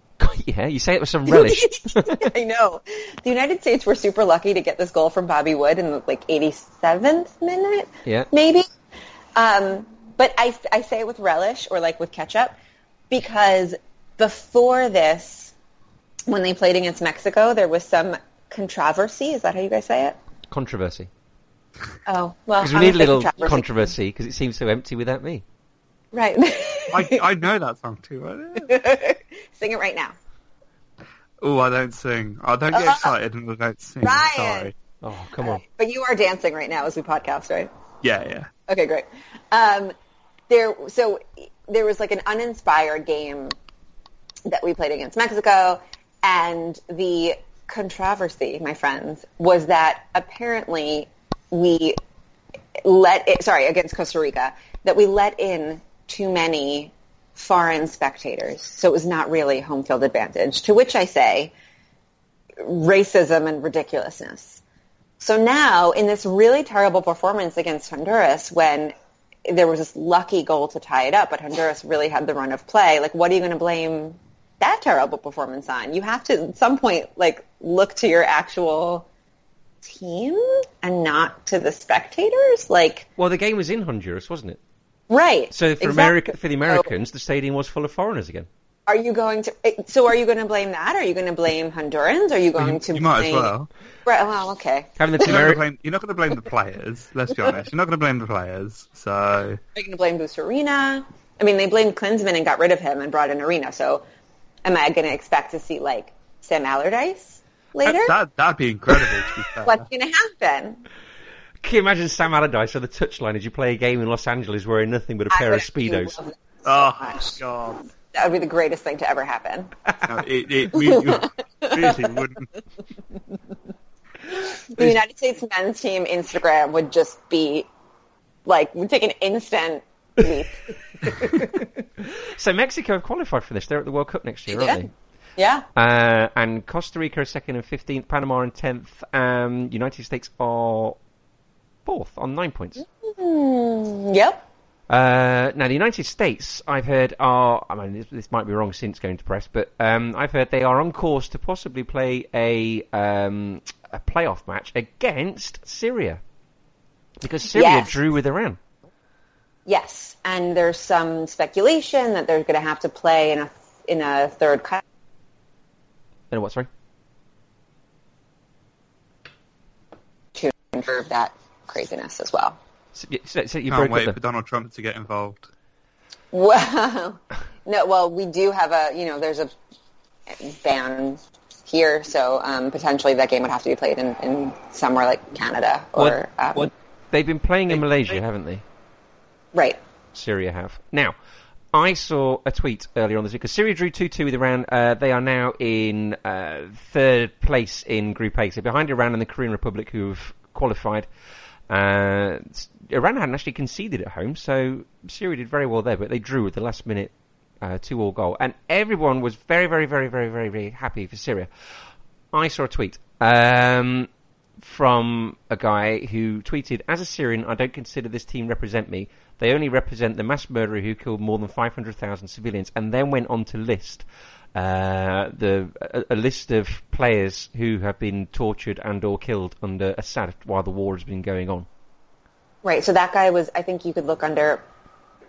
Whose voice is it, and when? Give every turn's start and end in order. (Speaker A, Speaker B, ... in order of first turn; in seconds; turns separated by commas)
Speaker A: 0.2-2.3, Speaker B: 1.3-8.7, Speaker A: 8.1-8.3, Speaker B: 9.3-12.6, Speaker B: 13.1-15.5, Speaker B: 16.3-20.2, Speaker A: 20.5-21.1, Speaker B: 22.1-23.9, Speaker A: 22.6-25.4, Speaker B: 26.1-27.2, Speaker C: 26.9-28.7, Speaker B: 28.6-30.1, Speaker C: 31.4-34.7, Speaker B: 32.7-33.1, Speaker B: 34.0-34.7, Speaker A: 35.0-35.6, Speaker B: 35.4-37.7, Speaker C: 38.0-38.5, Speaker B: 38.7-39.9, Speaker B: 40.5-43.6, Speaker B: 44.5-52.0, Speaker B: 52.9-61.5, Speaker B: 62.6-64.6, Speaker B: 65.2-68.9, Speaker B: 69.5-79.1, Speaker B: 79.8-83.1, Speaker A: 83.2-84.6, Speaker B: 85.1-86.9, Speaker A: 85.5-88.5, Speaker B: 88.9-93.5, Speaker C: 92.6-93.7, Speaker B: 94.1-95.5, Speaker A: 95.0-95.6, Speaker C: 95.2-99.6, Speaker B: 99.8-104.0, Speaker B: 104.7-108.2, Speaker C: 107.9-109.8, Speaker B: 109.6-110.8, Speaker A: 111.6-116.2, Speaker B: 115.3-117.4, Speaker C: 116.7-117.8, Speaker B: 118.1-119.7, Speaker C: 120.0-122.5, Speaker B: 120.7-122.2, Speaker B: 124.4-127.7, Speaker B: 128.5-130.6, Speaker A: 131.1-134.9, Speaker B: 134.5-135.7, Speaker A: 135.8-141.0, Speaker A: 141.9-142.8, Speaker B: 142.8-144.4, Speaker A: 144.9-156.2, Speaker A: 157.2-158.6, Speaker B: 157.5-157.9, Speaker B: 159.7-164.8, Speaker A: 166.3-166.7, Speaker B: 170.3-172.6, Speaker A: 172.9-174.2, Speaker C: 173.7-175.5, Speaker B: 176.3-179.5, Speaker B: 180.3-186.7, Speaker A: 186.0-188.6, Speaker A: 190.1-191.2, Speaker A: 191.7-201.1, Speaker A: 201.7-211.5, Speaker A: 212.3-231.7, Speaker B: 232.6-234.6